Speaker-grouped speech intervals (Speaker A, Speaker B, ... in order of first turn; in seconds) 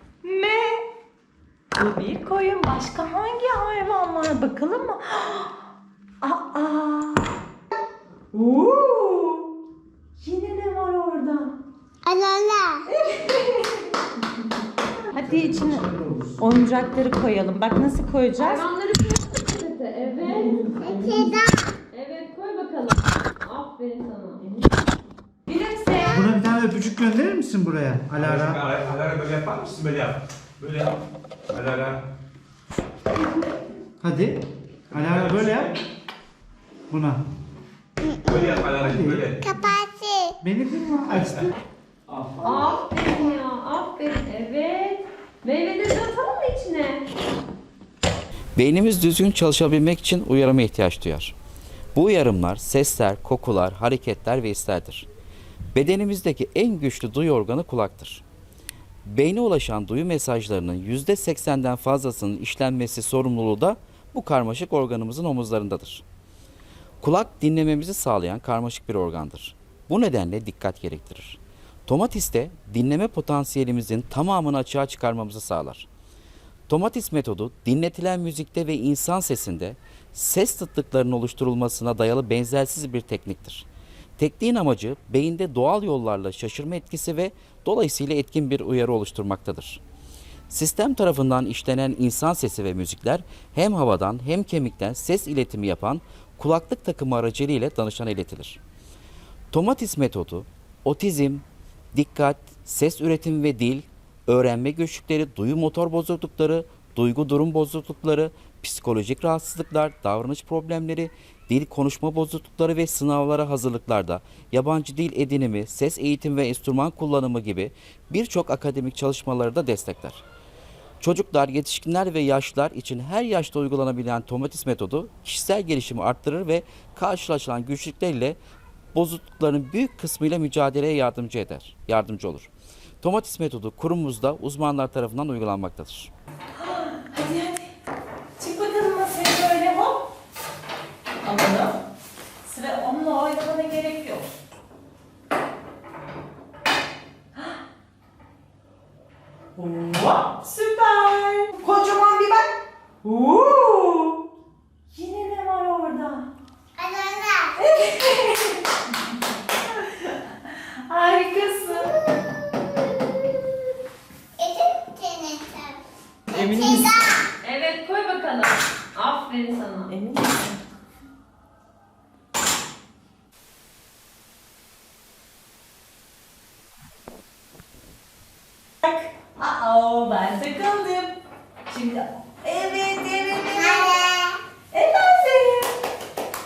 Speaker A: 0.2-0.8, 1.7-5.5, 6.2-7.3, 8.3-9.5, 10.2-11.5, 12.9-13.8, 15.1-18.6, 20.2-20.7, 25.5-26.4, 136.5-137.7, 138.4-140.0, 141.2-141.7, 142.4-144.2, 147.3-147.6, 149.6-152.5, 153.0-154.2, 154.9-156.2, 157.6-158.6, 159.8-162.0, 166.3-167.2, 169.9-170.6, 178.8-184.1, 184.7-185.7
Speaker B: 12.0-12.8, 20.8-21.6, 39.4-40.4, 156.8-157.6, 164.4-165.8, 166.3-167.1, 183.7-184.4
Speaker C: 15.4-16.3, 26.1-28.6, 34.0-34.4, 34.9-35.7, 36.9-37.2, 38.8-39.2, 40.4-41.5
Speaker D: 18.4-21.4, 21.9-24.4, 42.4-47.0, 167.4-169.9
Speaker E: 28.2-31.0, 31.5-32.0, 35.0-35.7, 38.2-39.4
Speaker F: 48.5-51.3, 51.9-55.1, 55.7-58.2, 59.1-66.0, 67.0-75.9, 76.7-83.7, 84.2-89.8, 90.5-98.6, 99.5-120.2, 121.0-128.4, 128.9-132.5, 133.0-136.1